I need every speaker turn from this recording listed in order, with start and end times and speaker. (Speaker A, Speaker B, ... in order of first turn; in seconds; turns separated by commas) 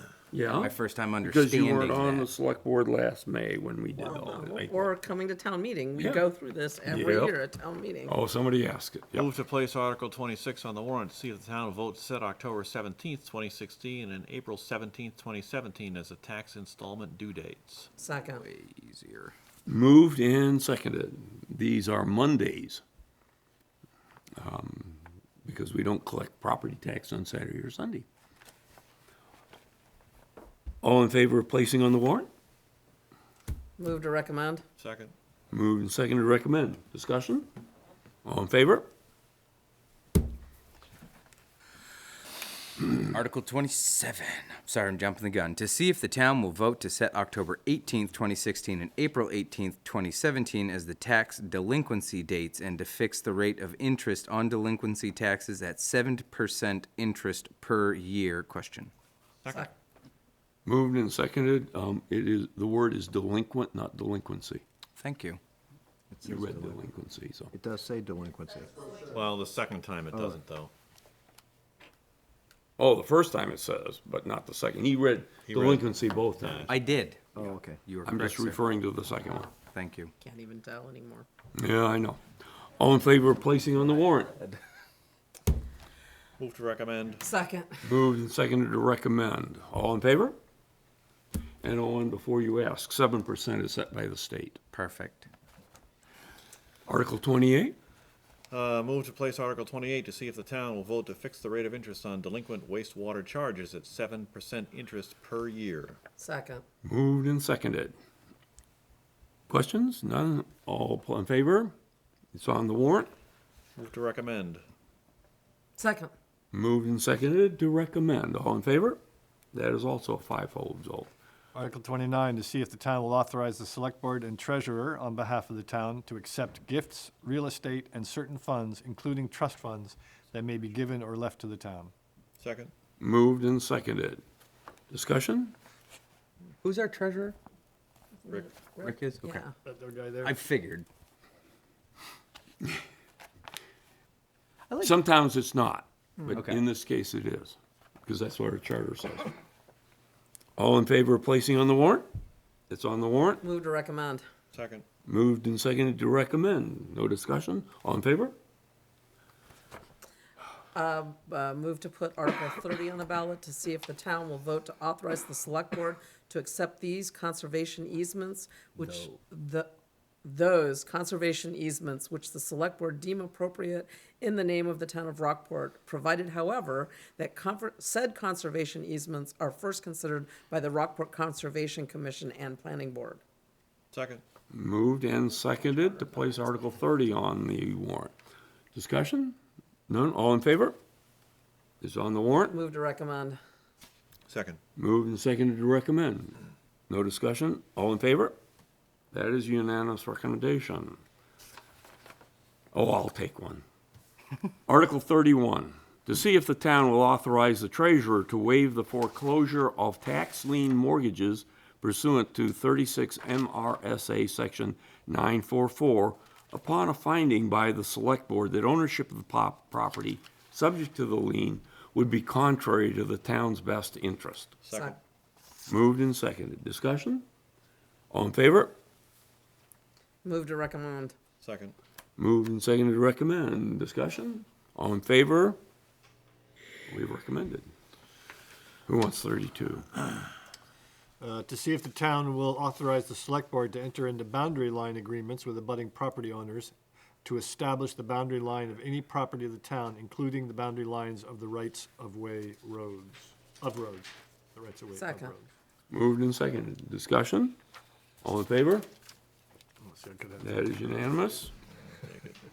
Speaker A: 0.3-4.9, Speaker B: 0.6-2.3, Speaker C: 4.4-8.1, Speaker A: 6.0-6.2, Speaker A: 6.9-7.4, Speaker A: 8.1-9.3, Speaker D: 9.1-17.9, Speaker C: 18.0-18.4, Speaker B: 18.3-19.3, Speaker A: 19.7-22.8, Speaker A: 24.4-28.1, Speaker A: 30.8-32.3, Speaker C: 33.8-34.6, Speaker D: 34.8-35.1, Speaker A: 35.5-37.5, Speaker A: 38.2-38.9, Speaker B: 42.9-58.9, Speaker D: 59.4-59.7, Speaker A: 60.6-64.6, Speaker B: 65.0-65.4, Speaker E: 66.1-66.8, Speaker A: 66.2-67.5, Speaker E: 67.5-68.7, Speaker D: 69.1-70.7, Speaker E: 70.1-70.4, Speaker A: 72.8-76.7, Speaker D: 75.5-76.7, Speaker B: 76.7-78.6, Speaker E: 77.3-77.8, Speaker A: 78.0-79.5, Speaker B: 79.7-80.1, Speaker C: 80.2-81.2, Speaker A: 81.5-82.2, Speaker A: 82.8-84.4, Speaker D: 86.4-87.2, Speaker C: 87.2-87.8, Speaker A: 87.8-90.4, Speaker A: 91.6-94.6, Speaker B: 94.7-95.3, Speaker A: 96.9-97.8, Speaker D: 98.5-106.0, Speaker C: 106.2-106.6, Speaker A: 106.8-107.9, Speaker A: 109.5-111.7, Speaker A: 112.3-113.1, Speaker D: 113.8-114.6, Speaker C: 115.8-116.1, Speaker A: 116.5-119.0, Speaker A: 119.5-121.1, Speaker F: 121.5-131.9, Speaker D: 132.4-132.7, Speaker A: 133.0-134.2, Speaker A: 134.9-135.5, Speaker B: 136.6-137.3, Speaker C: 138.2-139.5, Speaker B: 138.8-139.4, Speaker F: 139.6-140.4, Speaker B: 140.2-140.8, Speaker A: 144.8-149.3, Speaker B: 146.3-146.6, Speaker A: 150.6-152.1, Speaker A: 152.7-153.4, Speaker C: 153.4-154.2, Speaker D: 154.5-154.8, Speaker A: 155.1-158.3, Speaker C: 160.7-169.7, Speaker C: 170.2-183.2, Speaker D: 183.9-184.2, Speaker A: 184.5-188.1, Speaker A: 188.7-189.4, Speaker A: 189.9-190.8, Speaker A: 191.8-192.6, Speaker C: 192.5-193.4, Speaker D: 194.3-194.6, Speaker A: 194.8-196.4, Speaker A: 196.9-198.3, Speaker A: 199.1-201.0, Speaker A: 202.7-203.6, Speaker A: 204.7-224.5, Speaker D: 224.6-225.0, Speaker C: 224.7-225.0, Speaker A: 225.7-227.2, Speaker A: 228.1-228.7, Speaker C: 230.2-231.2, Speaker D: 231.4-231.8, Speaker A: 232.2-235.6, Speaker A: 236.9-237.7, Speaker A: 238.8-240.0, Speaker F: 241.2-246.7, Speaker F: 247.2-255.5, Speaker C: 254.9-255.3, Speaker A: 255.9-257.6, Speaker A: 258.2-258.9, Speaker F: 259.8-260.7, Speaker A: 260.4-261.5, Speaker D: 262.0-262.4